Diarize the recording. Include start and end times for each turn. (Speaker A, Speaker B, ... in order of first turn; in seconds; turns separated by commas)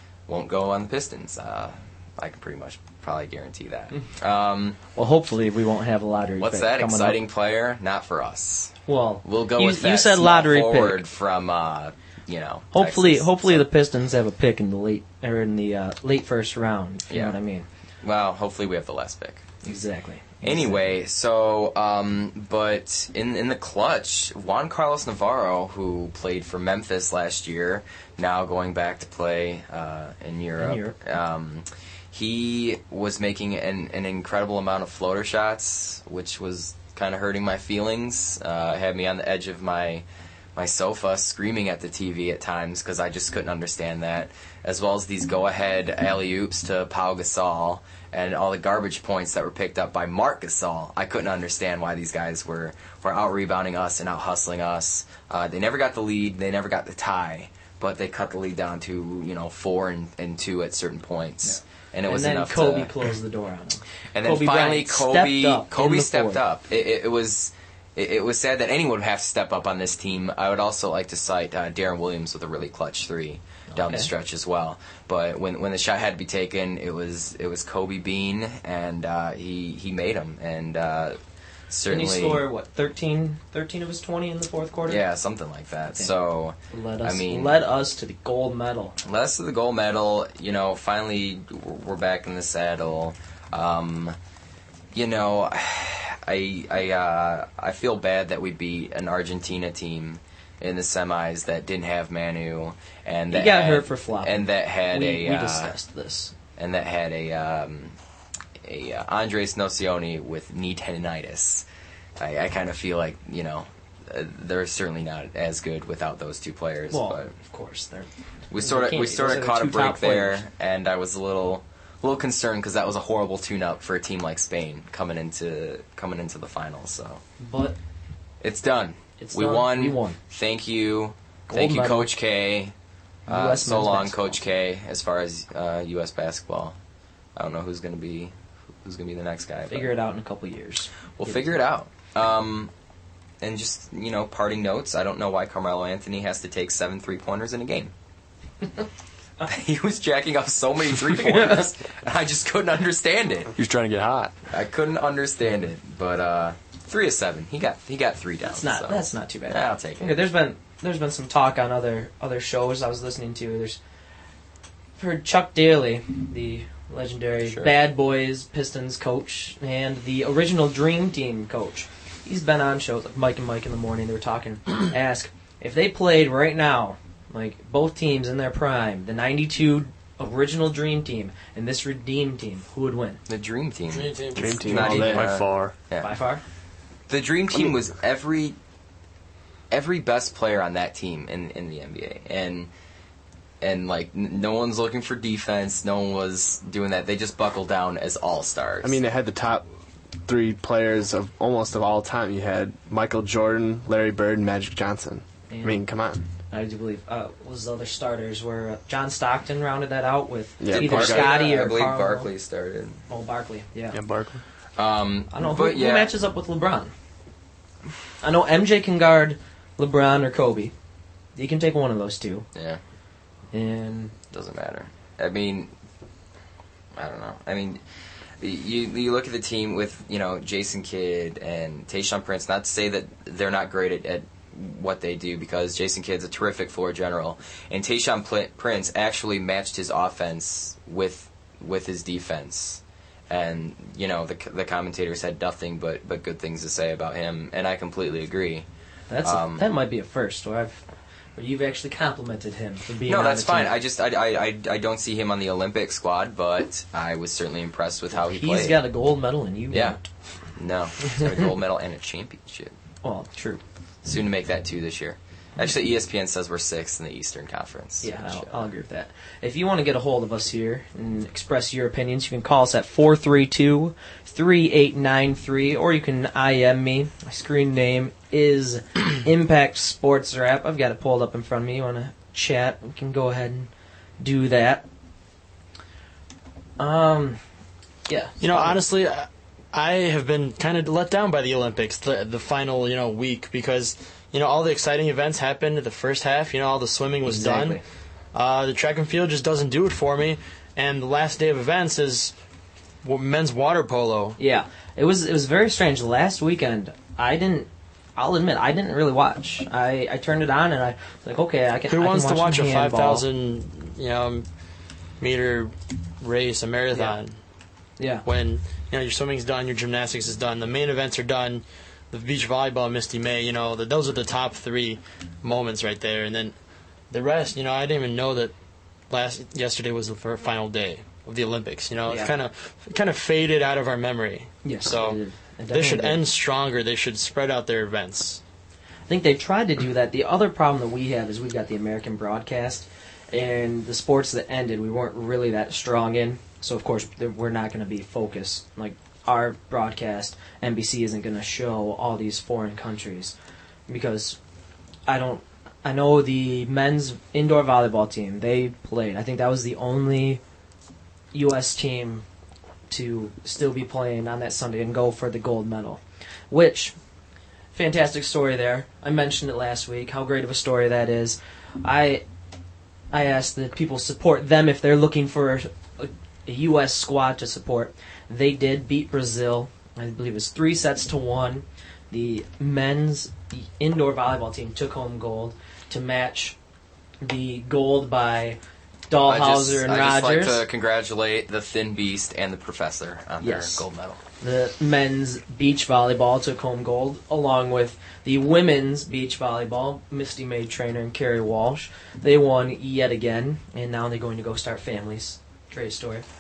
Speaker A: 0.3-4.8, Speaker B: 5.0-7.2, Speaker A: 6.4-13.7, Speaker B: 8.9-11.0, Speaker B: 12.7-17.7, Speaker A: 17.1-17.4, Speaker A: 18.0-19.4, Speaker B: 19.6-20.8, Speaker A: 20.4-40.0, Speaker B: 30.6-31.0, Speaker A: 40.5-62.9, Speaker B: 61.4-66.4, Speaker A: 64.1-81.2, Speaker B: 73.7-74.1, Speaker A: 81.7-82.4, Speaker B: 81.9-85.0, Speaker A: 84.9-87.6, Speaker B: 86.7-89.0, Speaker A: 89.0-94.2, Speaker A: 94.9-105.7, Speaker B: 103.3-106.3, Speaker A: 106.6-108.0, Speaker A: 108.7-111.7, Speaker A: 112.2-117.3, Speaker B: 116.9-120.4, Speaker A: 118.5-127.2, Speaker B: 127.4-127.8, Speaker A: 128.4-132.8, Speaker B: 129.2-130.2, Speaker B: 131.5-132.1, Speaker B: 133.3-134.4, Speaker A: 133.3-136.8, Speaker A: 137.4-139.9, Speaker B: 139.7-141.6, Speaker A: 141.2-142.7, Speaker A: 143.4-147.9, Speaker A: 149.5-153.5, Speaker B: 151.1-151.6, Speaker C: 153.6-154.3, Speaker A: 154.5-160.2, Speaker B: 158.5-163.8, Speaker B: 165.0-183.2, Speaker A: 167.4-167.7, Speaker A: 183.3-186.2, Speaker D: 183.9-184.6, Speaker E: 184.4-185.3, Speaker C: 184.7-185.8, Speaker B: 186.0-186.4, Speaker A: 187.1-188.6, Speaker A: 189.7-192.7, Speaker A: 193.6-199.0, Speaker E: 198.8-199.6, Speaker E: 200.2-206.3, Speaker B: 205.5-205.8, Speaker B: 206.5-212.3, Speaker E: 210.6-211.4, Speaker A: 210.7-213.0, Speaker B: 213.1-214.0, Speaker C: 213.9-214.4, Speaker A: 214.8-216.1, Speaker B: 215.3-216.9, Speaker B: 218.2-220.7, Speaker B: 221.4-222.5, Speaker A: 222.6-222.8, Speaker B: 223.5-224.1, Speaker A: 224.3-225.7, Speaker A: 227.0-227.8, Speaker A: 228.4-248.7, Speaker B: 249.1-250.8, Speaker A: 249.2-249.7, Speaker B: 251.4-253.7, Speaker A: 253.1-258.8, Speaker B: 258.1-260.0, Speaker A: 259.7-260.0, Speaker A: 260.5-262.7, Speaker B: 263.0-263.6, Speaker A: 264.0-268.7, Speaker B: 268.0-284.9, Speaker B: 286.8-287.4, Speaker B: 288.1-288.8, Speaker D: 288.4-297.8, Speaker B: 297.2-297.8, Speaker D: 298.3-302.3, Speaker D: 303.0-304.4, Speaker B: 304.4-313.2, Speaker D: 311.9-314.5, Speaker D: 315.2-317.4, Speaker B: 318.0-318.2, Speaker D: 318.2-326.5, Speaker D: 327.1-328.5, Speaker D: 329.1-335.2, Speaker B: 332.1-332.3, Speaker B: 334.6-336.2, Speaker D: 335.7-338.4, Speaker B: 339.1-353.4, Speaker B: 353.9-354.4, Speaker B: 355.1-360.4, Speaker B: 361.3-362.2, Speaker B: 362.9-367.0, Speaker B: 367.7-372.2, Speaker B: 373.1-386.6, Speaker B: 387.2-388.6, Speaker B: 389.1-390.6, Speaker A: 389.2-394.2, Speaker B: 393.4-393.8, Speaker B: 394.4-406.2